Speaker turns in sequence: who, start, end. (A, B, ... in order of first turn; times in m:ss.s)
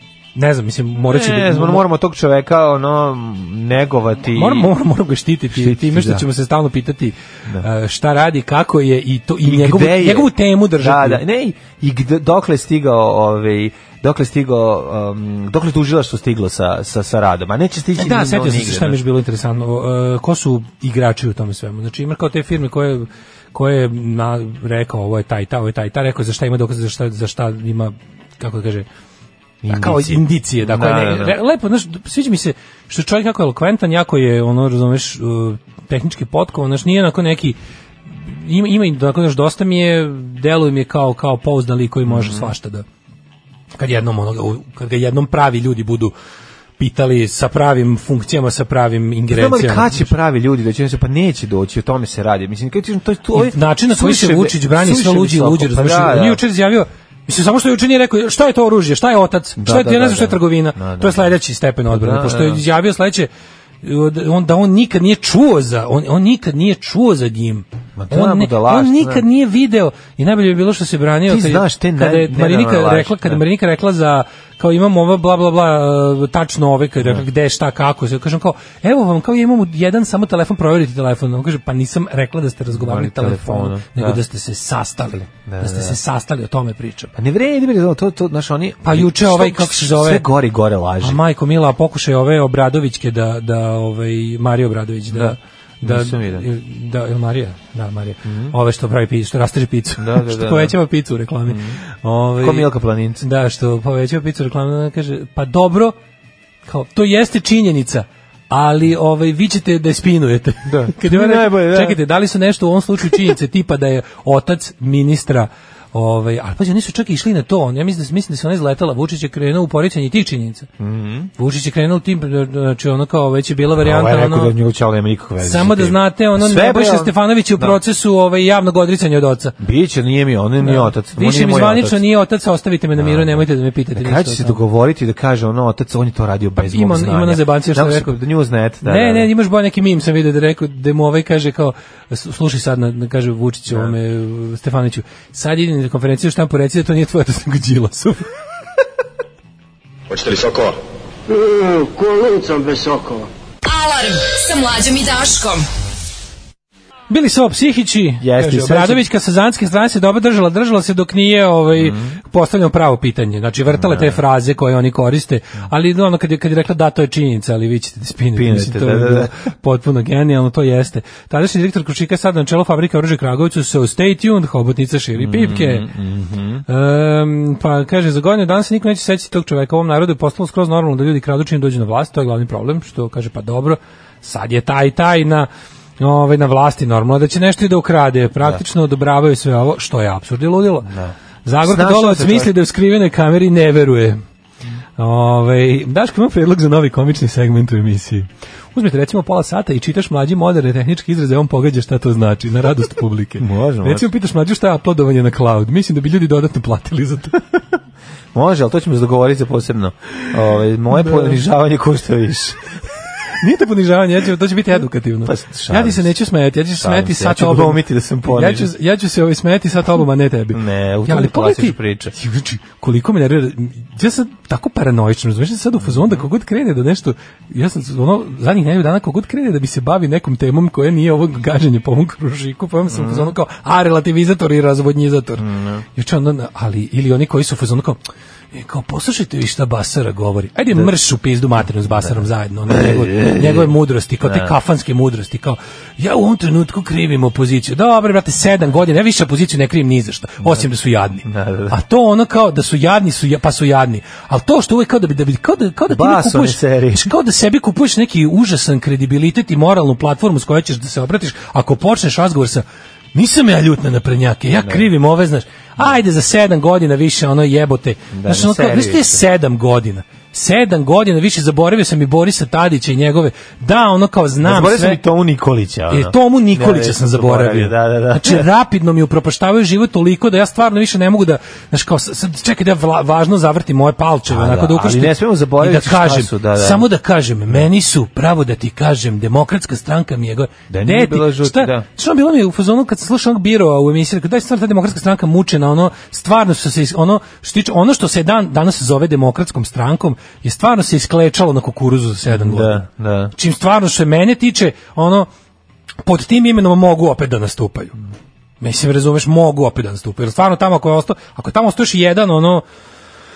0:00.4-0:01.8 A
0:01.0-0:04.7 B
0:04.3-0:11.2 A
0:05.5-0:06.3 B
0:09.4-0:19.0 B
0:18.0-0:28.9 A
0:29.6-0:31.4 B
0:29.7-0:37.6 A
0:38.2-0:42.8 A
0:42.1-0:42.5 B
0:43.8-0:46.1 A
0:46.8-0:50.1 A
0:49.3-0:56.4 B
0:53.3-1:03.3 A
0:59.6-1:01.4 B
1:01.9-1:02.6 B
1:03.8-1:27.1 A
1:08.0-1:09.2 B
1:11.3-1:13.4 B
1:17.0-1:17.2 B
1:22.7-1:24.2 B
1:25.4-1:26.0 B
1:27.2-1:31.2 B
1:28.8-1:30.3 A
1:31.0-1:46.0 A
1:35.1-1:36.5 B
1:38.2-1:38.6 B
1:40.0-1:40.8 B
1:41.5-1:41.8 B
1:42.4-1:43.2 B
1:46.7-2:00.7 A
1:50.7-1:52.0 B
2:00.8-2:01.3 B
2:01.4-2:04.6 A
2:03.8-2:07.8 B
2:05.4-2:09.6 A
2:09.6-2:12.0 B
2:10.6-2:14.6 A
2:13.0-2:19.3 B
2:16.6-2:18.2 A
2:18.8-2:28.3 A
2:23.7-2:24.0 B
2:33.6-2:35.7 C
2:37.1-2:55.9 A
2:38.2-2:39.1 B
2:41.8-2:42.2 B
2:43.7-2:44.2 B
2:48.4-2:49.3 B
2:55.2-2:56.6 B
2:56.7-3:05.5 A
3:06.0-3:10.9 A
3:10.8-3:12.5 B
3:11.4-3:14.2 A
3:15.0-3:27.4 A
3:23.4-3:24.1 B
3:28.3-3:32.6 B
3:30.9-3:31.4 A
3:33.4-3:58.0 A
3:35.3-3:36.1 B
3:36.8-3:38.7 B
3:40.5-3:42.1 B
3:45.8-3:46.3 B
3:52.9-3:53.4 B
3:55.4-3:55.8 B
3:58.5-4:35.0 A
4:01.9-4:03.7 B
4:04.2-4:04.6 B
4:11.2-4:11.8 B
4:15.9-4:17.1 B
4:24.6-4:24.9 B
4:28.1-4:29.2 B
4:34.4-4:38.4 B
4:35.9-5:05.3 A
4:44.3-4:46.9 B
4:50.7-4:51.8 B
5:02.3-5:03.3 B
5:06.0-5:08.0 A
5:08.6-5:12.6 A